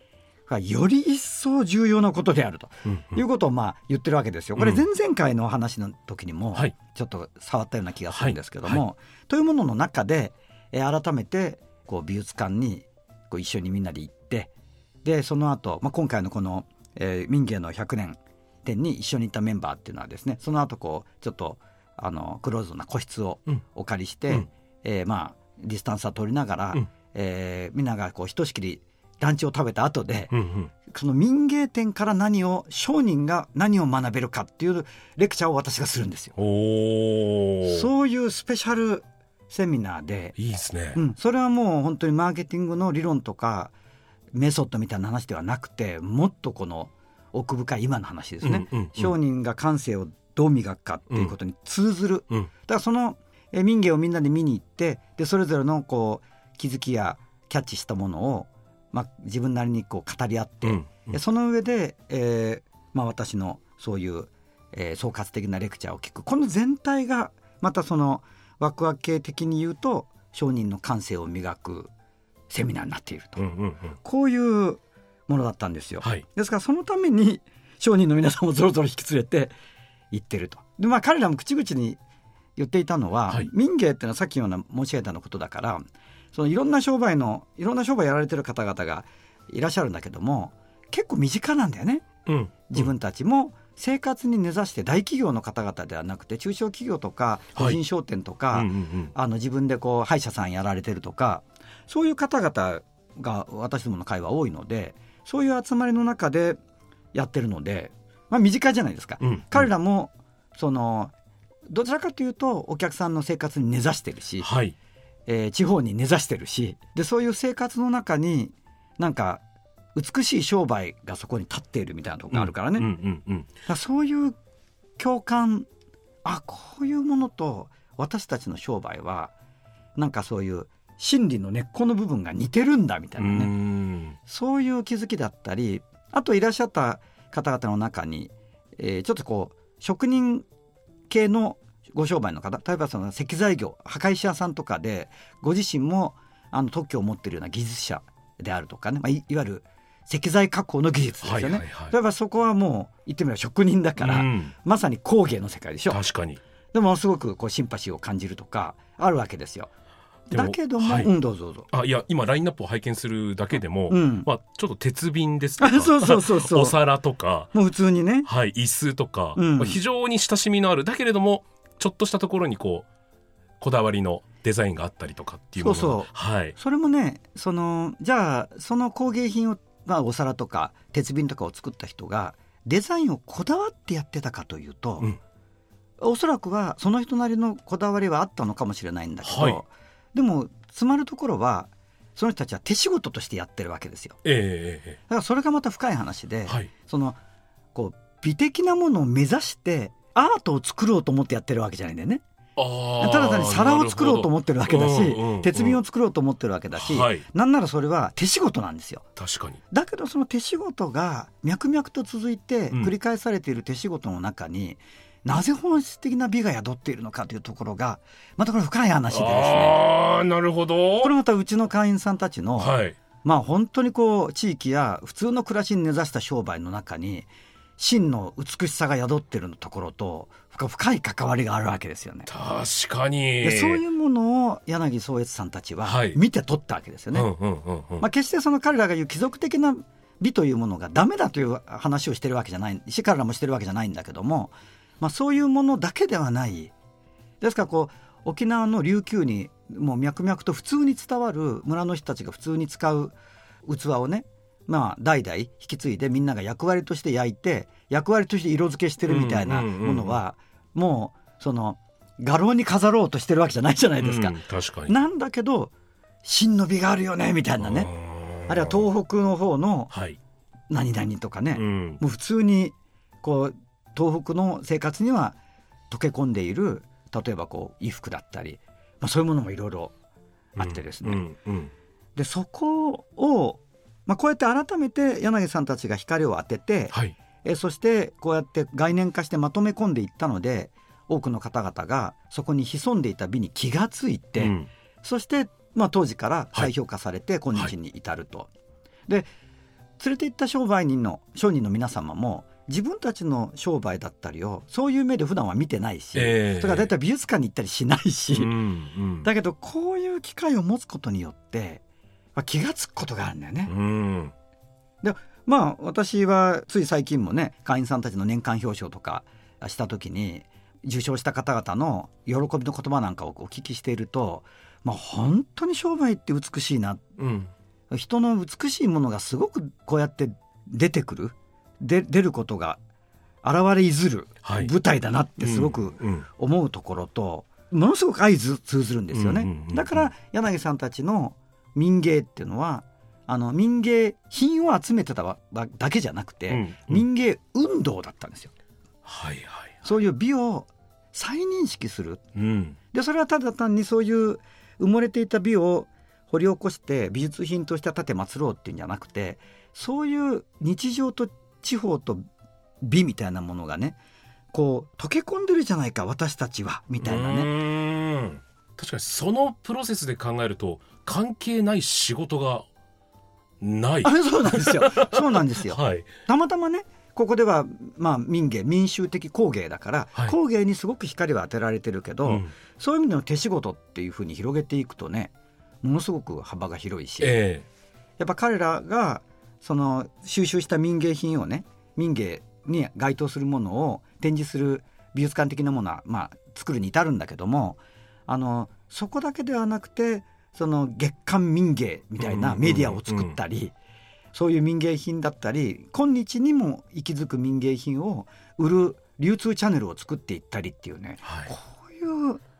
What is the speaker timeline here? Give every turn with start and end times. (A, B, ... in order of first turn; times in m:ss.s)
0:00.5-0:14.5 A
0:02.9-0:03.2 B
0:04.6-0:04.8 B
0:08.1-0:08.8 B
0:15.0-0:36.4 A
0:30.3-0:30.7 B
0:36.4-0:37.9 B
0:37.6-0:40.4 A
0:40.4-0:41.0 B
0:41.0-0:43.7 A
0:44.3-1:11.9 A
0:48.4-0:49.2 B
1:00.6-1:01.1 B
1:12.5-1:13.5 A
1:13.4-1:14.0 B
1:14.0-1:19.5 A
1:20.1-1:22.0 A
1:22.6-1:32.1 A
1:32.3-1:32.9 B
1:32.7-1:46.6 A
1:38.5-1:39.1 B
1:47.1-1:51.1 A
1:49.2-1:49.7 B
1:51.7-1:54.5 A
1:54.4-1:54.8 B
1:55.3-1:59.4 A
2:00.0-2:02.9 A
2:02.3-2:03.5 B
2:03.7-2:04.4 A
2:05.0-2:05.7 A
2:06.2-2:09.3 A
2:10.0-2:13.5 A
2:13.2-2:14.2 B
2:14.2-2:20.5 A
2:21.1-2:36.0 A
2:31.2-2:32.0 B
2:34.0-2:34.5 B
2:35.9-2:36.4 B
2:36.7-2:39.7 A
2:40.3-2:41.7 A
2:40.3-2:41.1 B
2:41.7-2:47.5 B
2:43.9-2:44.3 A
2:45.6-2:46.8 A
2:47.5-2:48.3 A
2:48.2-2:52.9 B
2:49.4-2:49.8 A
2:53.6-2:56.6 B
2:55.6-3:05.1 A
3:06.0-3:14.2 A
3:09.2-3:09.6 B
3:14.2-3:15.0 B
3:15.1-3:17.2 A
3:17.7-3:22.2 A
3:22.6-3:25.8 B
3:23.0-3:29.0 A
3:26.8-3:27.2 B
3:29.2-3:29.6 B
3:29.7-3:39.8 A
3:39.1-3:41.1 B
3:41.0-3:52.3 A
3:42.6-3:43.0 B
3:52.3-3:53.8 B
3:53.4-3:57.3 A
3:55.8-3:56.2 B
3:57.1-3:58.1 B
3:58.0-4:06.7 A
4:07.4-4:25.7 A
4:19.0-4:20.2 B
4:24.0-4:25.0 B
4:26.2-4:27.9 A
4:27.6-4:28.8 B
4:28.5-4:29.9 A
4:29.9-4:30.2 B
4:30.7-4:35.4 A
4:31.5-4:32.0 B
4:35.9-4:39.9 A
4:40.6-4:41.7 B
4:40.6-4:41.3 A
4:42.2-4:58.5 A
4:54.4-4:54.7 B
5:00.0-5:08.6 A
5:06.2-5:06.9 B
5:08.3-5:09.3 B
5:09.2-5:11.8 A
5:12.4-5:13.7 A
5:13.7-5:14.3 B
5:15.0-5:27.0 A
5:27.2-5:27.5 B
5:27.9-5:32.8 A
5:33.4-5:48.5 A
5:34.4-5:34.7 B
5:35.4-5:36.3 B
5:39.1-5:40.1 B
5:46.5-5:47.1 B
5:49.0-5:49.8 B
5:49.8-5:52.2 A
5:52.4-5:52.8 B
5:52.9-6:02.2 A
6:02.8-6:04.0 A
6:04.5-6:07.5 A
6:07.0-6:12.7 B
6:13.6-6:16.1 B
6:14.0-6:25.3 A
6:22.2-6:22.5 B
6:25.8-6:27.4 A
6:27.2-6:27.7 B
6:28.2-6:43.7 A
6:42.2-6:43.4 B
6:44.3-6:52.4 A
6:51.2-6:51.5 B